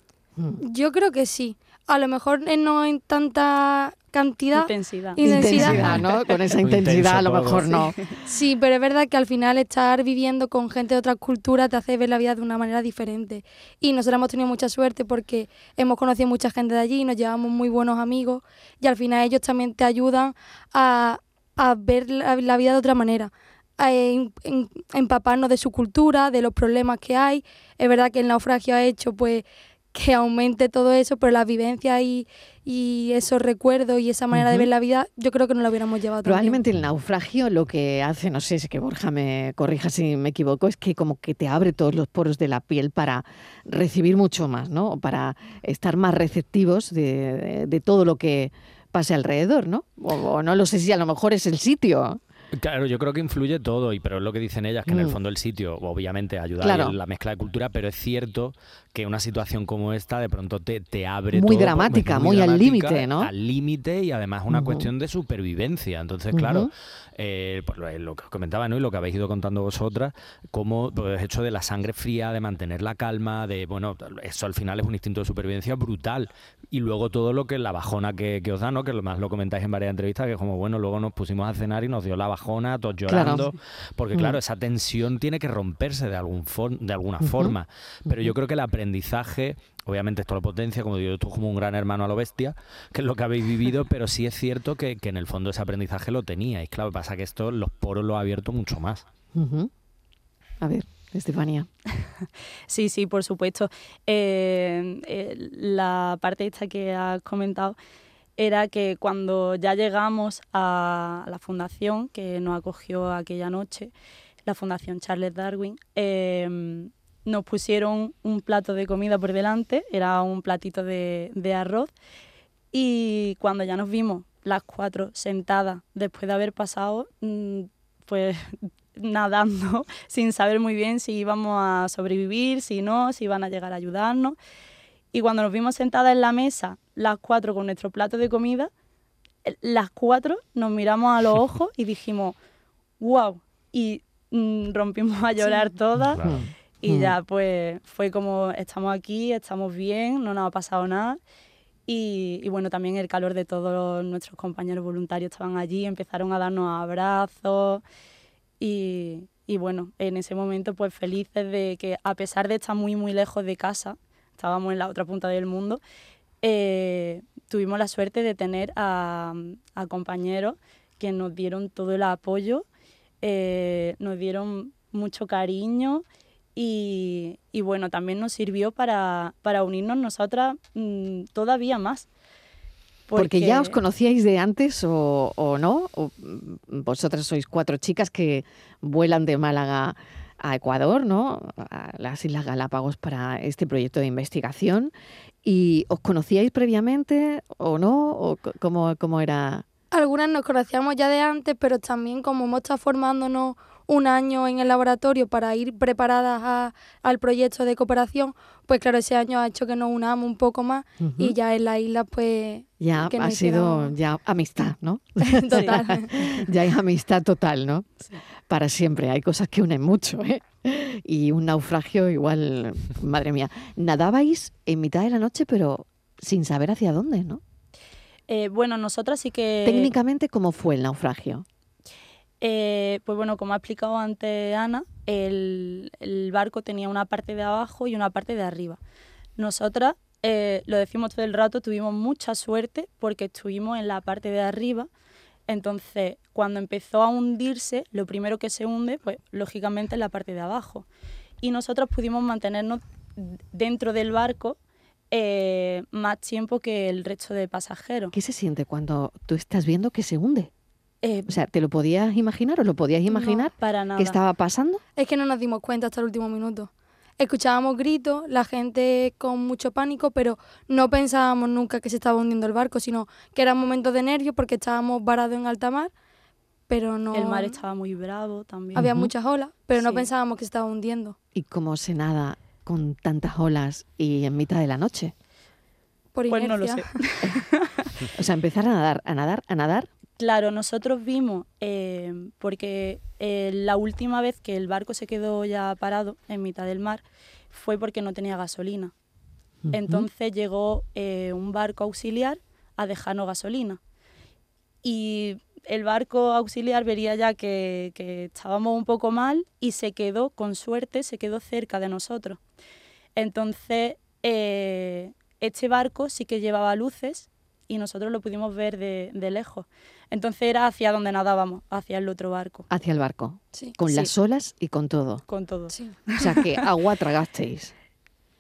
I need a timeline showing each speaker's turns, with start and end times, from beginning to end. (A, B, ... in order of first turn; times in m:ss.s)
0:00.6-0:06.0 A
0:04.5-0:05.6 B
0:05.2-0:08.0 C
0:05.6-0:06.0 D
0:06.6-0:07.8 D
0:08.2-0:36.6 A
0:34.3-0:34.7 C
0:36.2-0:52.2 C
0:52.6-1:39.0 D
0:54.9-0:55.2 C
0:56.6-0:57.0 C
1:01.3-1:03.3 C
1:04.5-1:04.9 C
1:06.3-1:06.7 C
1:23.1-1:23.5 C
1:24.1-1:24.4 C
1:27.2-1:27.6 C
1:39.3-1:39.7 C
1:40.6-1:41.7 C
1:42.2-1:47.8 B
1:48.4-1:53.9 B
1:54.5-2:01.9 B
2:02.7-2:14.4 B
2:15.1-2:18.7 B
2:19.4-2:22.4 B
2:23.0-2:31.2 B
2:26.1-2:26.4 D
2:26.2-2:27.2 C
2:31.9-2:37.8 B
2:38.6-2:45.8 B
2:46.4-2:52.6 B
2:53.2-2:56.0 B
2:56.6-3:02.1 B
3:03.1-3:03.8 B
3:03.2-3:14.9 C
3:15.4-3:19.7 C
3:19.9-3:33.9 A
3:31.0-3:31.4 C
3:32.8-3:37.9 C
3:35.2-3:36.1 A
3:38.5-3:47.4 C
3:48.3-3:49.9 B
3:49.6-3:51.4 C
3:52.4-3:58.8 B
3:59.4-4:04.9 B
4:05.5-4:10.9 B
4:11.4-4:14.6 B
4:15.1-4:18.1 B
4:18.1-4:20.5 C
4:21.0-4:21.4 B
4:21.3-4:24.8 C
4:23.1-4:23.4 A
4:23.6-4:24.2 B
4:25.0-4:35.9 A
4:36.7-4:37.6 A
4:37.1-4:38.8 B
4:38.8-4:39.1 C
4:38.8-4:41.2 A
4:39.8-4:40.1 B
4:41.3-4:45.1 C
4:46.2-4:46.9 A
4:46.3-4:47.9 B
4:48.1-4:49.9 C
4:50.2-4:58.9 B
4:59.7-5:00.1 C
4:59.7-5:03.8 B
5:04.8-5:12.4 B
5:13.2-5:22.7 B
5:22.7-5:25.2 C
5:25.3-5:26.7 B
5:26.2-5:27.7 C